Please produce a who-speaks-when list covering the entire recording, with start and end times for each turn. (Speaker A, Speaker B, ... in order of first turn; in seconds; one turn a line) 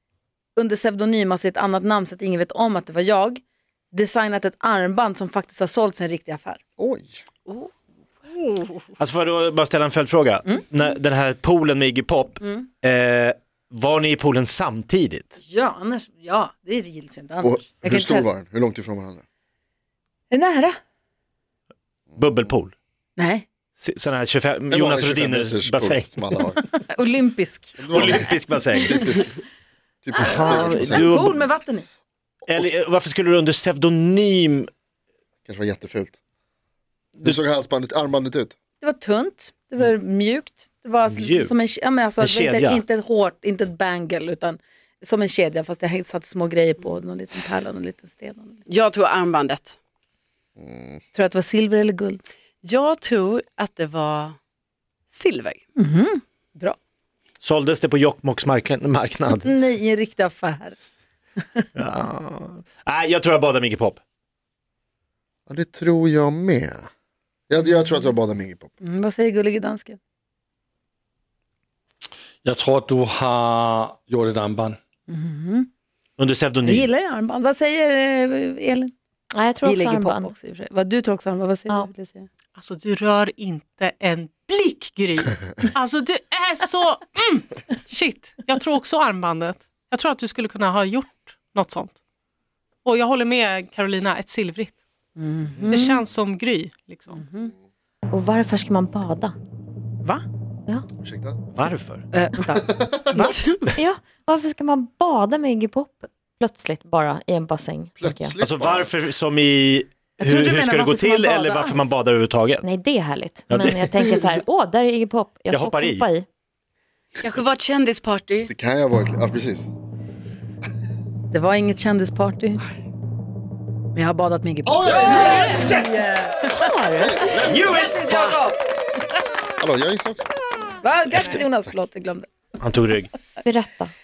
Speaker A: 0.6-6.6
Speaker B: 6.8-7.2
Speaker C: 7.5-7.7
Speaker D: 9.0-15.4
Speaker A: 15.4-18.3
Speaker B: 17.4-19.2
Speaker A: 20.3-20.8
Speaker D: 22.2-22.7
Speaker A: 23.2-23.4
Speaker D: 23.8-26.1
Speaker B: 24.7-26.6
Speaker A: 26.8-28.1
Speaker B: 27.8-29.3
Speaker D: 27.9-29.0
Speaker B: 30.0-31.2
Speaker D: 30.2-31.4
Speaker A: 30.5-31.9
Speaker D: 32.5-34.7
Speaker B: 35.5-36.2
Speaker B: 37.2-38.5
Speaker A: 38.8-48.6
Speaker D: 41.1-41.5
Speaker D: 42.2-42.8
Speaker C: 48.7-49.8
Speaker B: 50.6-51.0
Speaker A: 51.1-52.2
Speaker C: 52.6-54.4
Speaker C: 55.1-55.6
Speaker A: 55.8-56.8
Speaker D: 57.4-59.5
Speaker A: 59.3-60.8
Speaker D: 61.8-64.0
Speaker B: 65.5-66.9
Speaker B: 67.5-68.7
Speaker A: 67.7-68.0
Speaker A: 68.8-70.0
Speaker E: 72.4-74.8
Speaker A: 75.1-75.7
Speaker D: 76.2-76.9
Speaker A: 76.6-78.9
Speaker F: 79.3-80.3
Speaker A: 79.6-82.3
Speaker G: 82.5-92.0
Speaker G: 92.8-94.8
Speaker A: 95.2-96.0
Speaker G: 95.7-97.2
Speaker A: 97.1-97.5
Speaker F: 98.1-99.3
Speaker B: 101.0-101.4
Speaker D: 101.5-102.0
Speaker A: 102.1-103.4
Speaker B: 102.5-103.3
Speaker C: 103.1-103.7
Speaker F: 103.7-108.4
Speaker B: 108.0-108.9
Speaker D: 108.4-112.7
Speaker A: 110.2-111.9
Speaker F: 112.6-116.2
Speaker D: 113.5-113.8
Speaker C: 114.0-114.3
Speaker D: 115.5-116.0
Speaker C: 117.2-118.5
Speaker B: 118.5-119.7
Speaker A: 121.3-122.7
Speaker A: 123.9-127.1
Speaker B: 124.7-125.6
Speaker F: 126.6-127.1
Speaker B: 127.0-128.0
Speaker D: 127.5-128.4
Speaker A: 127.6-128.6
Speaker B: 129.6-130.4
Speaker A: 130.8-132.3
Speaker B: 131.1-131.4
Speaker D: 132.6-133.1
Speaker F: 133.4-133.9